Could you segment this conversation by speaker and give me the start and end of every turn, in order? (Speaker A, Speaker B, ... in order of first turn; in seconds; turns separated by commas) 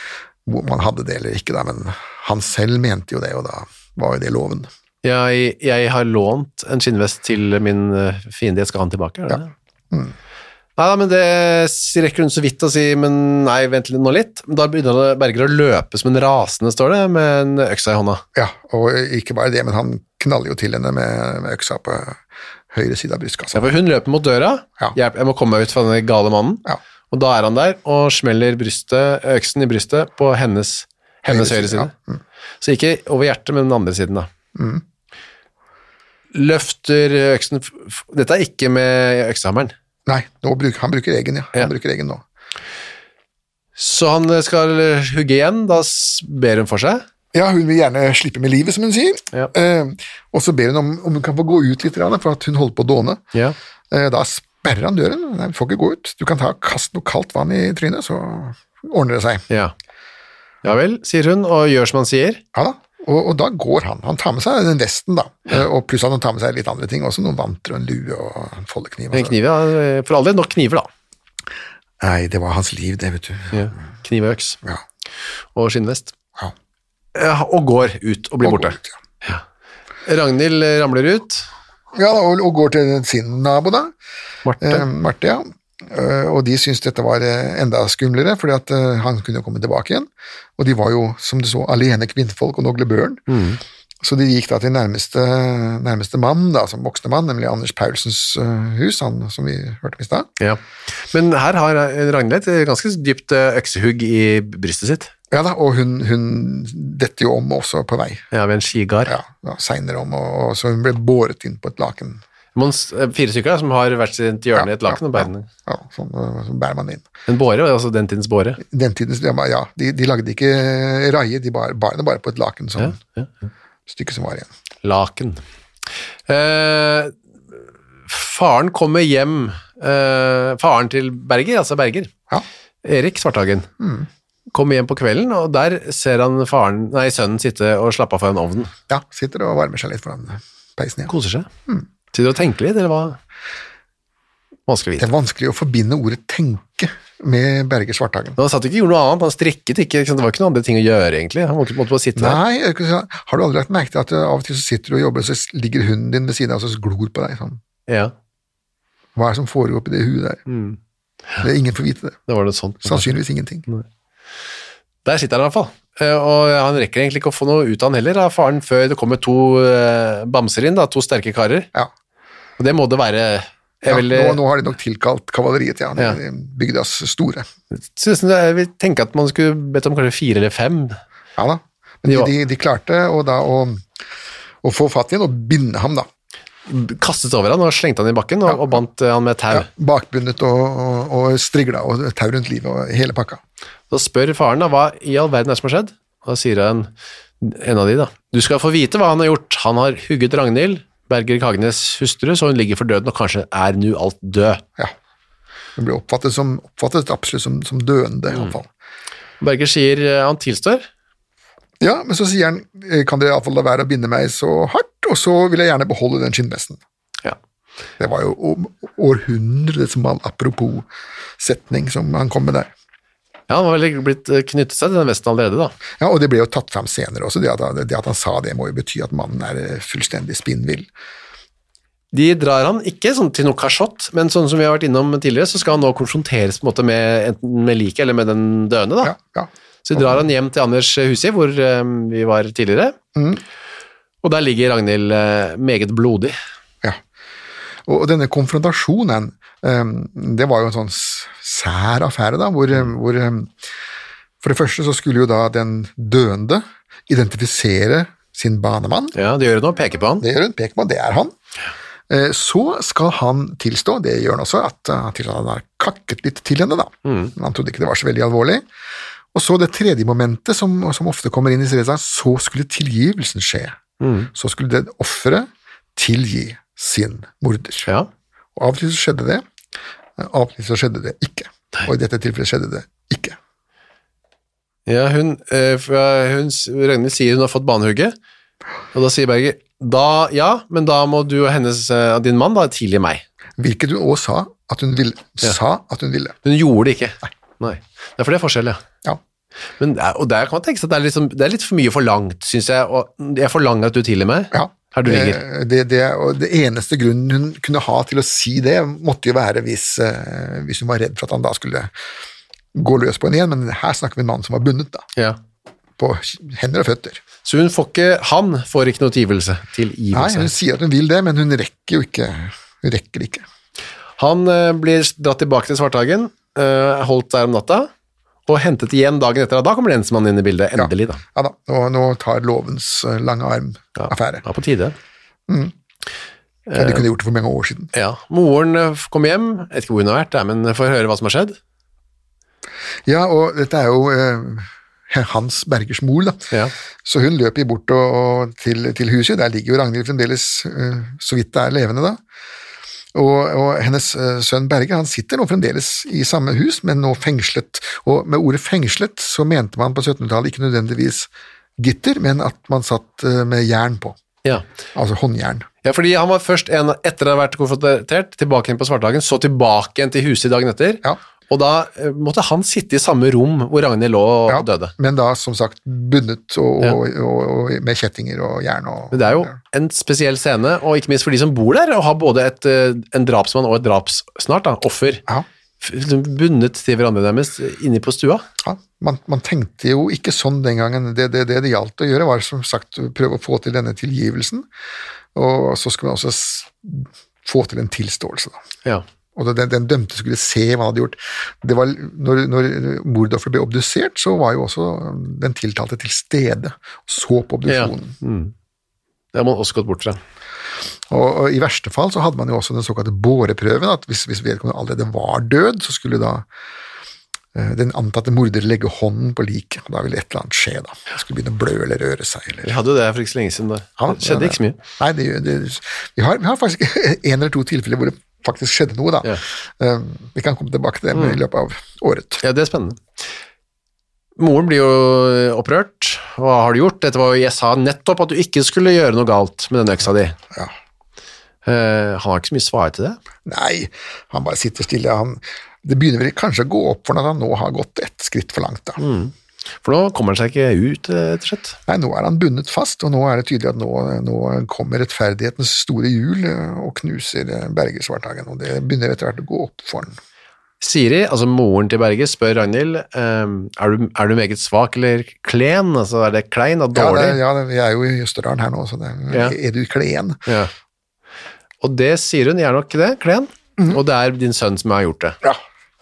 Speaker A: 0.4-4.7, Speaker B: 5.0-9.5, Speaker B: 10.8-18.2, Speaker A: 18.4-22.2, Speaker A: 22.7-23.6, Speaker B: 23.5-31.9, Speaker A: 31.3-32.2, Speaker B: 32.6-34.3, Speaker A: 34.5-34.8, Speaker B: 36.3-39.7, Speaker A: 40.1-42.2, Speaker B: 43.8-47.0, Speaker A: 47.3-53.2, Speaker A: 53.9-59.4, Speaker B: 60.6-62.4, Speaker A: 62.5-69.3, Speaker B: 69.1-70.9, Speaker A: 72.0-73.7, Speaker B: 73.5-74.6, Speaker B: 75.5-76.1, Speaker B: 77.1-79.4, Speaker A: 78.4-78.9, Speaker B: 80.0-81.5, Speaker A: 81.9-83.9, Speaker B: 84.4-84.8, Speaker A: 84.6-93.2, Speaker B: 93.3-93.6, Speaker A: 94.0-100.3, Speaker B: 100.4-105.1, Speaker A: 105.3-108.2, Speaker B: 108.3-109.1, Speaker A: 109.0-112.2, Speaker B: 112.5-115.5, Speaker A: 114.5-117.1, Speaker B: 117.3-118.6, Speaker A: 118.6-123.0, Speaker B: 122.8-123.5, Speaker A: 123.9-124.5, Speaker B: 124.8-125.4, Speaker B: 126.3-127.1, Speaker B: 128.1-132.1, Speaker B: 132.8-133.7, Speaker A: 133.8-134.1, Speaker B: 134.5-138.7, Speaker A: 138.9-141.1, Speaker B: 141.1-141.5, Speaker B: 142.1-143.2, Speaker B: 144.7-145.1, Speaker A: 145.0-148.4, Speaker B: 148.4-152.4, Speaker A: 152.2-157.6, Speaker B: 157.9-158.1, Speaker A: 159.2-160.4, Speaker B: 160.5-160.8, Speaker A: 161.4-162.2, Speaker B: 162.3-163.1, Speaker A: 162.8-163.7, Speaker B: 165.0-171.7, Speaker B: 172.6-174.4, Speaker A: 173.9-177.5, Speaker B: 177.7-181.0, Speaker A: 181.4-183.8, Speaker A: 184.6-186.1, Speaker B: 186.7-189.7, Speaker A: 188.5-188.8, Speaker A: 189.5-193.4, Speaker B: 193.9-196.9, Speaker B: 197.4-204.6, Speaker A: 205.8-208.7, Speaker B: 209.4-210.8, Speaker A: 211.8-216.8, Speaker A: 218.0-220.9, Speaker A: 221.4-222.7, Speaker B: 223.5-225.7, Speaker A: 226.0-230.9, Speaker B: 232.1-239.1, Speaker A: 239.0-240.2, Speaker B: 239.8-242.9, Speaker A: 243.2-243.4, Speaker B: 244.2-246.3, Speaker A: 247.8-253.5, Speaker A: 254.4-259.1, Speaker B: 259.1-260.2, Speaker A: 260.2-261.3, Speaker A: 262.1-268.6, Speaker B: 267.0-267.3, Speaker A: 269.3-273.8, Speaker B: 274.0-274.3, Speaker A: 274.3-277.9, Speaker A: 278.6-279.4, Speaker A: 280.2-283.4, Speaker B: 284.9-288.1, Speaker B: 288.9-293.2, Speaker A: 293.6-296.4, Speaker B: 296.4-298.8, Speaker B: 299.8-305.4, Speaker A: 304.5-311.9, Speaker A: 312.7-315.1, Speaker A: 316.0-317.2, Speaker B: 317.4-320.5, Speaker A: 320.1-323.4, Speaker B: 324.2-327.9, Speaker B: 328.5-331.2, Speaker A: 330.8-334.4, Speaker B: 334.0-334.9, Speaker A: 335.5-335.7, Speaker B: 336.7-337.0, Speaker A: 336.7-337.9, Speaker B: 337.9-341.6, Speaker A: 343.1-346.5, Speaker A: 347.0-352.2, Speaker A: 353.1-364.2, Speaker A: 364.9-365.7, Speaker B: 365.8-374.9, Speaker A: 374.5-379.5, Speaker B: 379.1-385.2, Speaker B: 385.8-388.4, Speaker A: 388.6-394.7, Speaker A: 395.3-398.6, Speaker A: 399.4-408.1, Speaker B: 407.7-408.5, Speaker B: 409.3-410.2, Speaker A: 411.1-416.4, Speaker A: 417.5-422.7, Speaker B: 422.6-424.8, Speaker A: 424.0-432.4, Speaker B: 431.1-431.4, Speaker B: 432.4-433.0, Speaker B: 434.4-440.4, Speaker B: 441.6-443.2, Speaker A: 443.4-449.0, Speaker B: 449.0-451.8, Speaker A: 451.9-460.1, Speaker B: 460.8-467.4, Speaker A: 466.9-470.4, Speaker B: 469.3-469.6, Speaker B: 470.5-470.7, Speaker B: 471.8-475.4